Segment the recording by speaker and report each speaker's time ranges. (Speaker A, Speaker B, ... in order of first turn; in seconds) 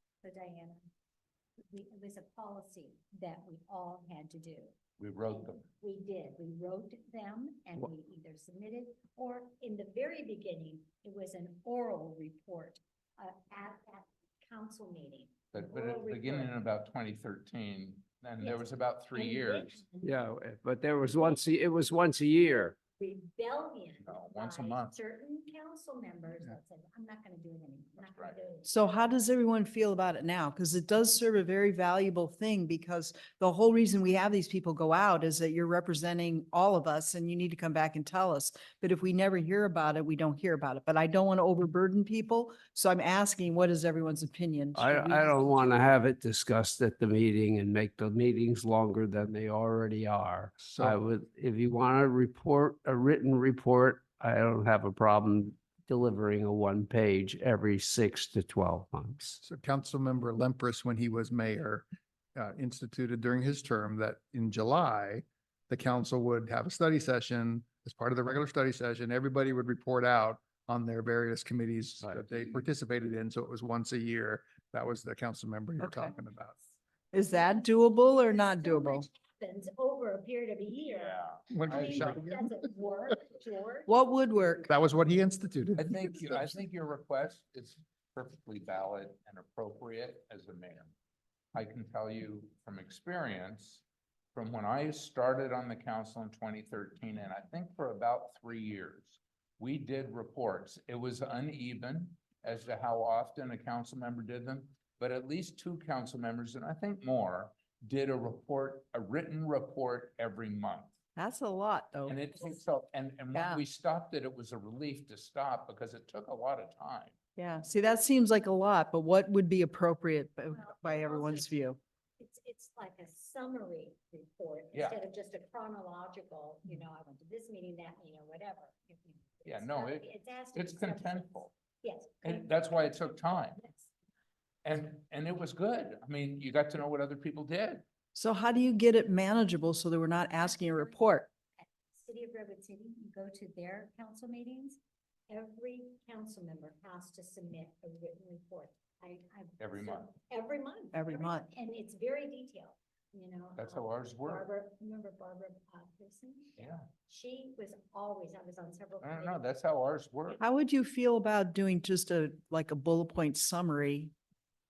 Speaker A: 0.2-0.9, 1.7-4.7, 5.3-16.6, 18.4-20.1, 22.9-28.7, 77.3-77.6, 78.2-84.6, 120.5-121.5, 122.2-133.9, 140.1-141.0, 141.6-159.5
Speaker B: 5.0-5.6, 15.5-19.8, 24.0-25.0, 28.0-28.4, 80.9-82.2, 85.8-90.9, 91.5-110.9, 112.1-117.1, 124.7-125.0, 129.4-131.5, 132.2-133.6, 134.6-137.8, 149.6-150.1, 153.6-154.5, 156.6-156.9, 159.0-160.4
Speaker C: 20.0-22.8, 44.7-59.4
Speaker D: 28.6-45.8, 75.8-76.1, 77.1-79.0, 83.9-84.7, 111.2-112.5, 113.3-113.6, 117.4-121.8, 138.1-141.3, 150.9-151.4, 160.4-164.1
Speaker E: 50.6-50.9, 59.4-76.5, 81.5-82.5, 84.7-86.5